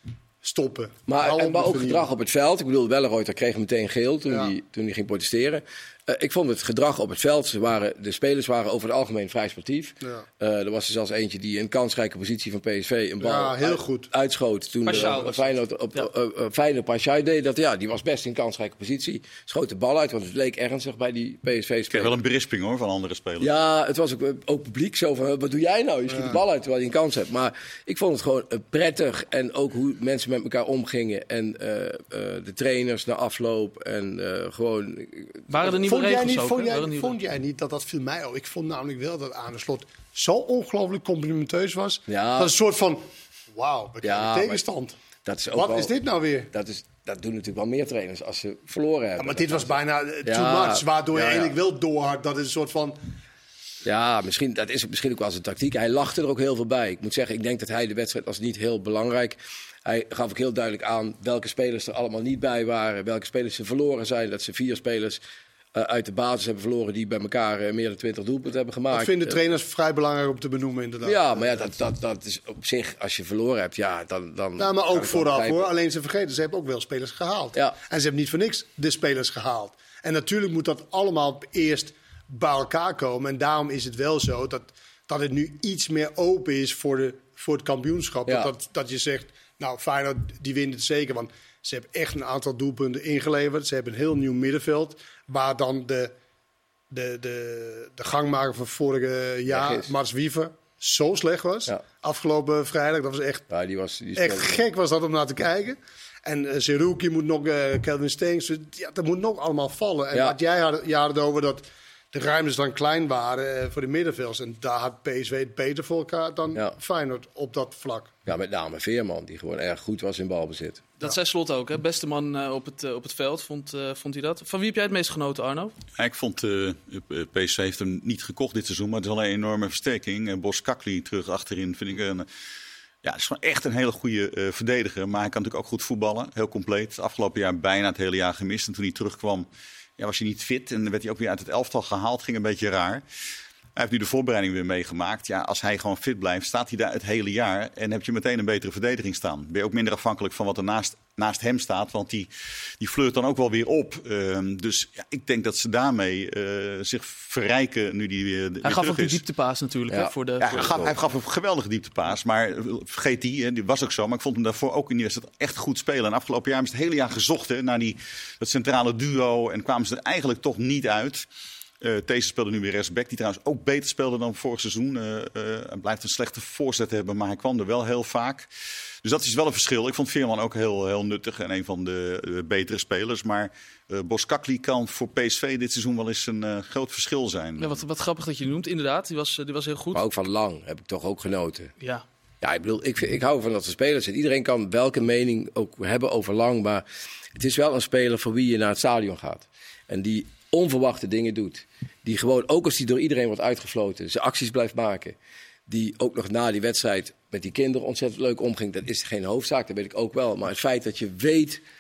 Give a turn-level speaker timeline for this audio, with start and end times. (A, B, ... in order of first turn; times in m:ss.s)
0:00.4-0:02.1 A
0:01.1-0:22.2 B
0:13.2-0:14.1 A
0:14.9-0:16.1 C
0:21.9-0:23.5 D
0:23.4-0:35.8 B
0:26.1-0:26.4 A
0:35.5-0:37.1 C
0:35.8-0:45.0 A
0:42.1-0:42.5 B
0:44.0-0:44.6 B
0:45.2-0:45.9 B
0:45.5-0:46.5 A
0:46.5-0:51.6 B
0:49.2-0:53.0 A
0:53.8-1:05.2 B
1:05.7-1:09.4 B
1:08.9-1:11.6 A
1:11.0-1:15.7 B
1:14.6-1:36.1 A
1:36.9-1:43.5 A
1:39.5-1:39.9 B
1:43.5-1:44.6 B
1:44.2-1:58.1 A
1:58.3-2:00.9 B
2:01.0-2:05.7 C
2:06.0-2:12.3 D
2:13.0-2:23.0 D
2:23.8-2:39.2 D
2:38.6-2:40.9 C
2:39.9-2:40.9 B
2:40.4-2:51.3 D
2:51.8-2:58.5 D
2:59.0-3:07.8 D
3:07.6-3:10.0 C
3:09.9-3:11.7 B
3:11.8-3:12.1 C
3:12.4-3:16.8 B
3:17.4-3:25.2 B
3:25.7-3:31.6 B